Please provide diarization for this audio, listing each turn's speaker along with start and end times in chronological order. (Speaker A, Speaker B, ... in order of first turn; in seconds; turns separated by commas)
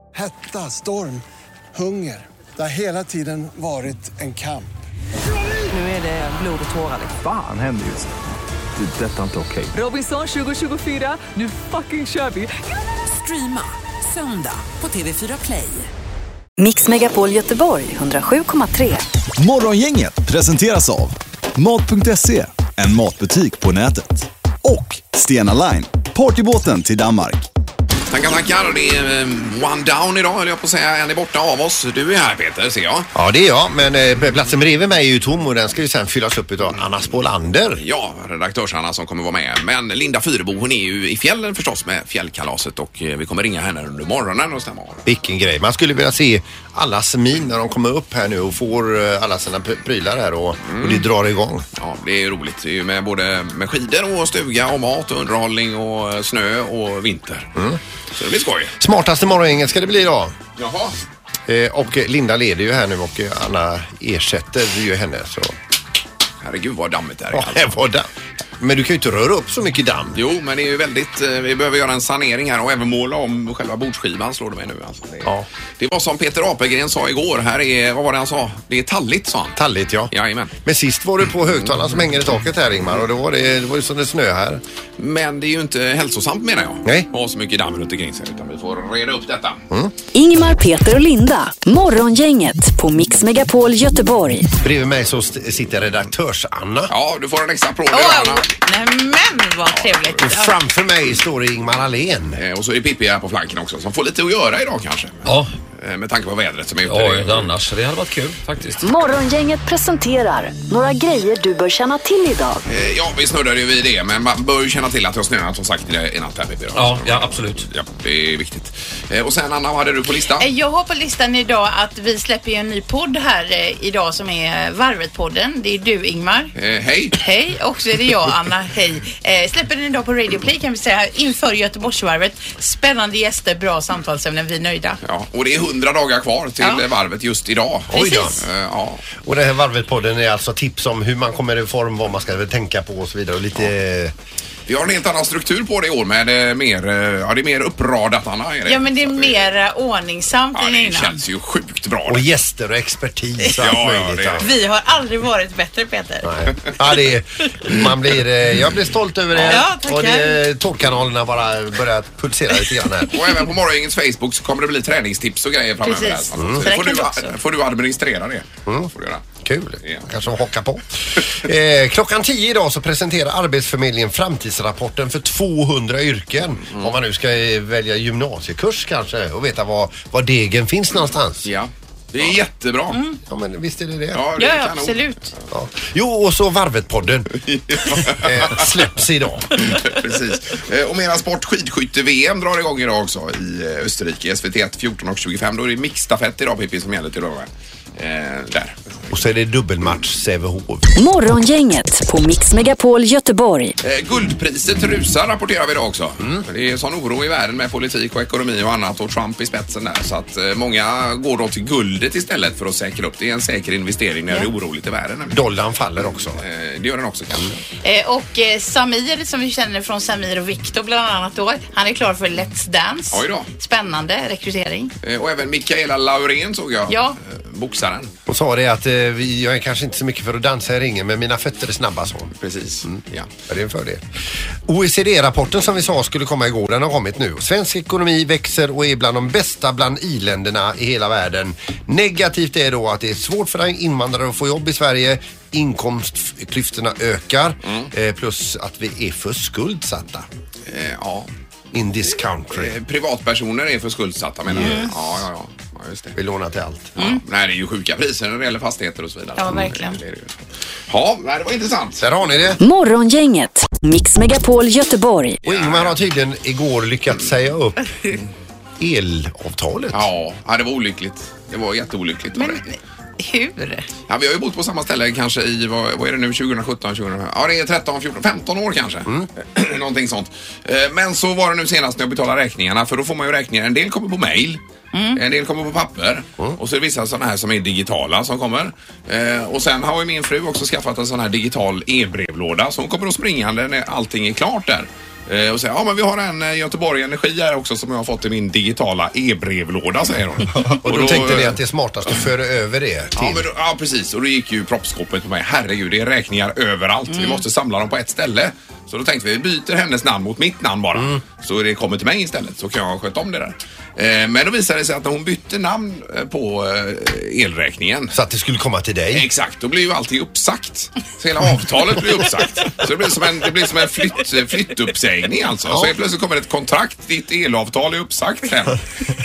Speaker A: 0.1-1.2, Speaker A: 1.7-4.7, Speaker B: 5.7-7.1, Speaker C: 5.8-6.3, Speaker C: 6.9-8.2, Speaker C: 8.8-9.8, Speaker B: 9.7-15.9, Speaker D: 16.6-19.0, Speaker E: 19.4-27.4, Speaker F: 28.1-33.1, Speaker G: 33.1-37.8, Speaker F: 37.8-45.0, Speaker G: 45.0-51.6, Speaker F: 50.6-51.0, Speaker F: 51.8-57.5, Speaker F: 58.1-58.7, Speaker G: 58.8-60.3, Speaker F: 60.6-60.9, Speaker G: 61.5-65.5, Speaker F: 66.4-67.8, Speaker G: 67.3-68.1, Speaker G: 68.6-70.2, Speaker F: 70.1-79.6, Speaker G: 79.5-80.1, Speaker F: 80.1-80.5, Speaker G: 80.6-84.6, Speaker F: 85.0-89.6, Speaker D: 90.1-94.5, Speaker G: 94.6-96.9, Speaker F: 96.9-98.5, Speaker H: 97.9-100.5, Speaker F: 99.8-100.1, Speaker G: 100.2-102.4, Speaker F: 102.3-107.6, Speaker I: 106.9-108.8, Speaker D: 108.7-112.6, Speaker F: 112.7-120.5, Speaker I: 116.7-117.6, Speaker H: 120.4-126.5, Speaker F: 126.5-127.2, Speaker H: 127.2-135.0, Speaker F: 135.0-139.0, Speaker G: 137.9-138.4, Speaker H: 137.9-138.3, Speaker G: 139.2-144.1, Speaker F: 144.7-149.3, Speaker H: 148.7-151.2, Speaker F: 150.5-152.3, Speaker G: 152.1-154.5, Speaker F: 153.6-154.5, Speaker H: 154.4-156.3, Speaker G: 156.2-163.2, Speaker F: 159.3-159.6, Speaker H: 159.5-160.4, Speaker F: 163.1-169.2, Speaker H: 165.8-167.3, Speaker G: 166.4-166.7, Speaker G: 169.4-181.5, Speaker F: 176.7-176.9, Speaker F: 181.4-183.0, Speaker H: 182.9-183.2, Speaker G: 183.3-184.2, Speaker F: 184.1-185.0, Speaker H: 184.4-185.3, Speaker G: 185.5-187.3, Speaker F: 187.4-188.7, Speaker G: 187.9-189.7, Speaker F: 189.6-198.8, Speaker G: 199.1-200.9, Speaker D: 200.9-203.7, Speaker F: 203.8-215.4, Speaker G: 215.3-216.4, Speaker F: 216.4-217.6, Speaker H: 217.8-224.9, Speaker F: 223.1-223.5, Speaker F: 225.0-228.1, Speaker H: 226.9-227.2, Speaker G: 228.3-232.3, Speaker F: 232.4-233.3, Speaker G: 232.8-234.0, Speaker G: 234.7-250.3, Speaker F: 247.6-247.9, Speaker F: 250.7-251.3, Speaker G: 251.7-252.7, Speaker F: 252.5-256.1, Speaker G: 254.4-255.0, Speaker H: 254.6-254.9, Speaker G: 256.1-256.9, Speaker F: 257.0-260.3, Speaker H: 259.4-260.0, Speaker F: 260.9-262.0, Speaker G: 262.0-262.6, Speaker D: 262.6-265.4, Speaker F: 265.4-266.0, Speaker G: 265.4-267.9, Speaker G: 268.8-270.1, Speaker F: 269.9-272.6, Speaker H: 272.3-273.9, Speaker F: 274.1-284.6, Speaker H: 284.9-285.2, Speaker F: 285.1-301.6, Speaker G: 300.8-303.4, Speaker F: 303.1-318.1, Speaker H: 307.1-307.4, Speaker G: 318.1-319.2, Speaker F: 319.1-328.8